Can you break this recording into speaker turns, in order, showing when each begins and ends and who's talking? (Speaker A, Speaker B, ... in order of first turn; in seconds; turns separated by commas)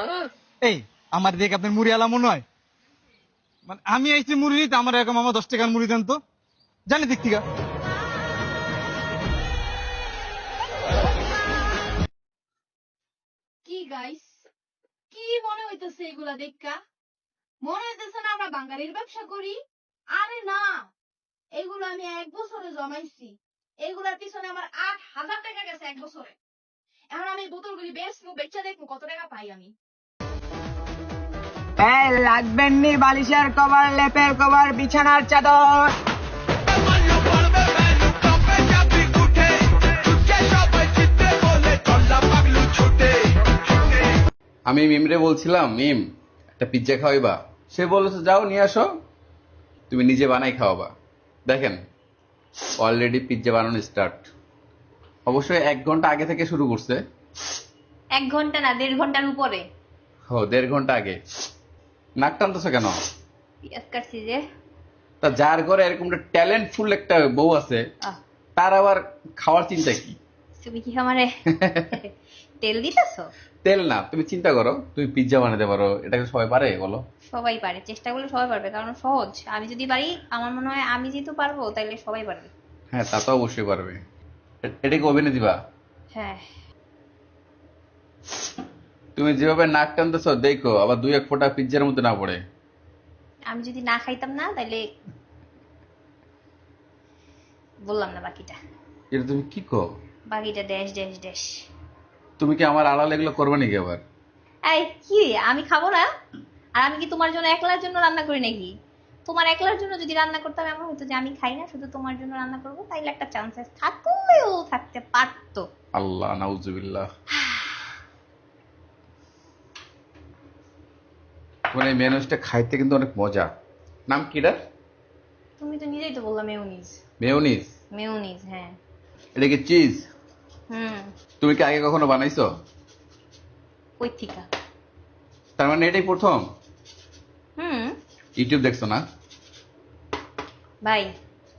Speaker A: 0.6-2.4, Speaker A: 3.7-6.2, Speaker A: 6.9-7.4, Speaker B: 13.7-14.5, Speaker B: 15.1-16.8, Speaker B: 17.6-19.5, Speaker B: 20.1-20.9, Speaker B: 21.6-26.3, Speaker B: 27.1-29.7, Speaker C: 31.8-35.5, Speaker D: 44.7-46.0, Speaker D: 46.6-48.8, Speaker D: 49.9-50.9, Speaker D: 51.5-51.8, Speaker D: 52.8-54.2, Speaker D: 55.3-57.0, Speaker E: 58.2-59.6, Speaker D: 60.3-61.2, Speaker D: 62.2-62.9, Speaker E: 63.7-64.4, Speaker D: 65.2-67.8, Speaker D: 68.6-70.2, Speaker E: 70.6-71.3, Speaker E: 72.6-73.3, Speaker D: 73.7-77.0, Speaker E: 77.3-82.5, Speaker D: 82.9-84.0, Speaker D: 84.7-85.5, Speaker E: 86.1-86.4, Speaker D: 89.2-92.4, Speaker E: 93.5-94.8, Speaker E: 97.9-98.5, Speaker D: 99.1-99.8, Speaker E: 100.3-101.6, Speaker D: 102.4-104.0, Speaker E: 104.7-106.1, Speaker E: 106.8-108.7, Speaker E: 109.3-115.7, Speaker D: 116.0-117.1, Speaker D: 121.7-123.5, Speaker D: 124.1-124.6, Speaker E: 125.6-127.0, Speaker D: 127.2-127.7, Speaker E: 127.9-128.8, Speaker D: 129.4-130.1, Speaker E: 130.7-131.1, Speaker D: 131.4-132.4, Speaker E: 134.0-134.5, Speaker D: 135.6-136.4, Speaker E: 137.6-137.9, Speaker D: 138.4-139.0